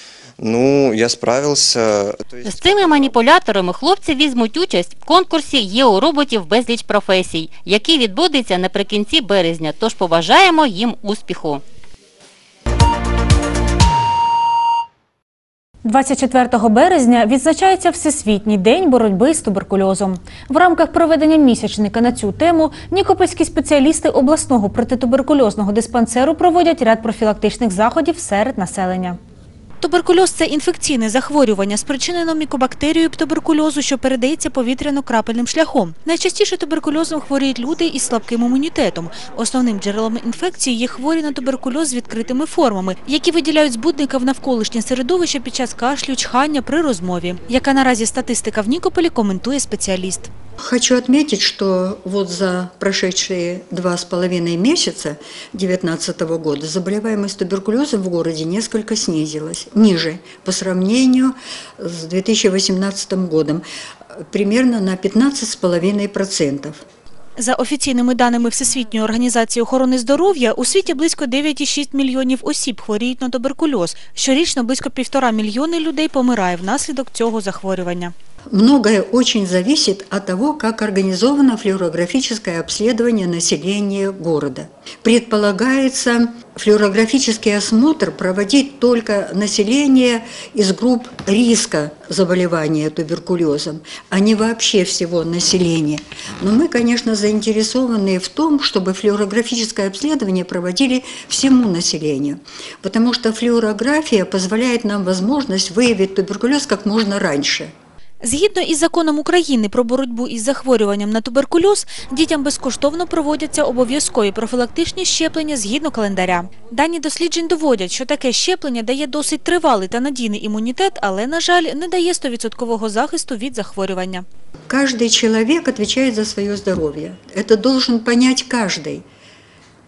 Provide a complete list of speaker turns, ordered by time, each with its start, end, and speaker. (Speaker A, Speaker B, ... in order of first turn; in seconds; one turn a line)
Speaker A: 0.4-3.1
Speaker B: 2.5-11.6
Speaker C: 15.8-29.2
Speaker D: 29.8-50.3
Speaker E: 50.6-63.6
Speaker E: 64.3-66.8
Speaker D: 67.4-78.1
Speaker E: 78.5-107.7
Speaker D: 108.2-124.2
Speaker C: 115.8-116.2
Speaker C: 118.4-118.8
Speaker E: 124.7-129.0